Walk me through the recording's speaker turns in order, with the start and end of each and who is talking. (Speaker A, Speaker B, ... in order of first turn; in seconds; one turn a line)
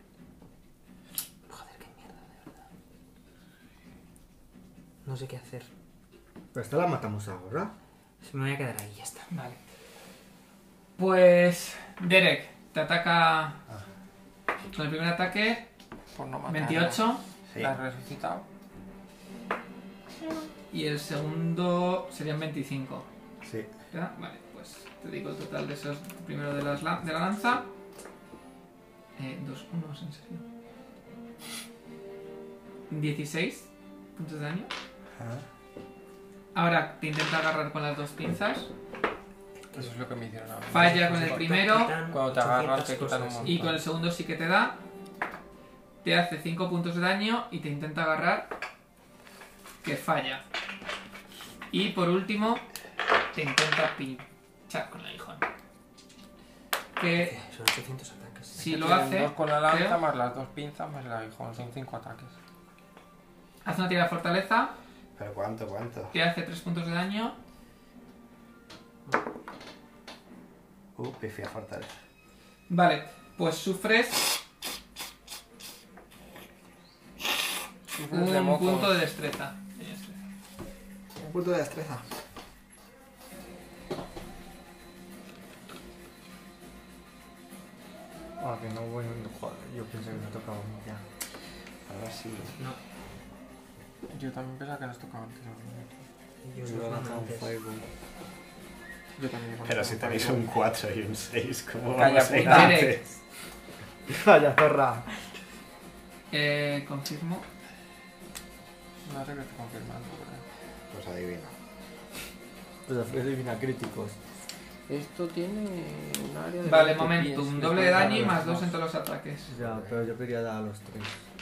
Speaker A: 1.5-2.5
Speaker A: 5.0-5.7
Speaker B: 6.5-7.7
Speaker A: 8.2-9.3
Speaker C: 9.3-9.6
Speaker C: 11.0-13.6
Speaker C: 14.7-15.7
Speaker D: 16.1-18.4
Speaker C: 16.5-17.2
Speaker E: 17.5-17.8
Speaker C: 20.7-23.1
Speaker E: 23.4-23.7
Speaker C: 23.9-27.7
Speaker C: 29.2-30.4
Speaker C: 32.9-34.7
Speaker E: 35.2-35.4
Speaker C: 36.5-38.7
Speaker D: 39.7-41.2
Speaker A: 40.7-43.8
Speaker C: 40.7-42.0
Speaker D: 42.0-43.8
Speaker C: 43.4-44.8
Speaker C: 46.0-48.5
Speaker C: 49.8-50.4
Speaker C: 51.7-52.6
Speaker C: 53.3-55.4
Speaker C: 57.0-57.3
Speaker A: 57.1-58.7
Speaker D: 58.5-62.4
Speaker C: 58.6-60.0
Speaker C: 63.6-64.7
Speaker E: 65.2-66.1
Speaker C: 66.1-67.3
Speaker E: 71.0-71.9
Speaker C: 72.7-74.3
Speaker D: 77.9-79.0
Speaker C: 78.1-80.2
Speaker E: 81.2-82.0
Speaker B: 88.4-91.0
Speaker E: 91.9-92.6
Speaker D: 94.1-96.0
Speaker A: 96.4-97.5
Speaker B: 96.6-97.8
Speaker D: 99.2-100.6
Speaker E: 99.6-103.1
Speaker D: 101.9-102.9
Speaker C: 102.3-103.0
Speaker B: 104.1-105.0
Speaker C: 106.3-107.4
Speaker D: 109.0-110.4
Speaker E: 110.9-111.5
Speaker B: 112.9-114.2
Speaker D: 114.9-118.8
Speaker C: 116.6-119.5
Speaker B: 117.9-118.4
Speaker B: 119.5-121.2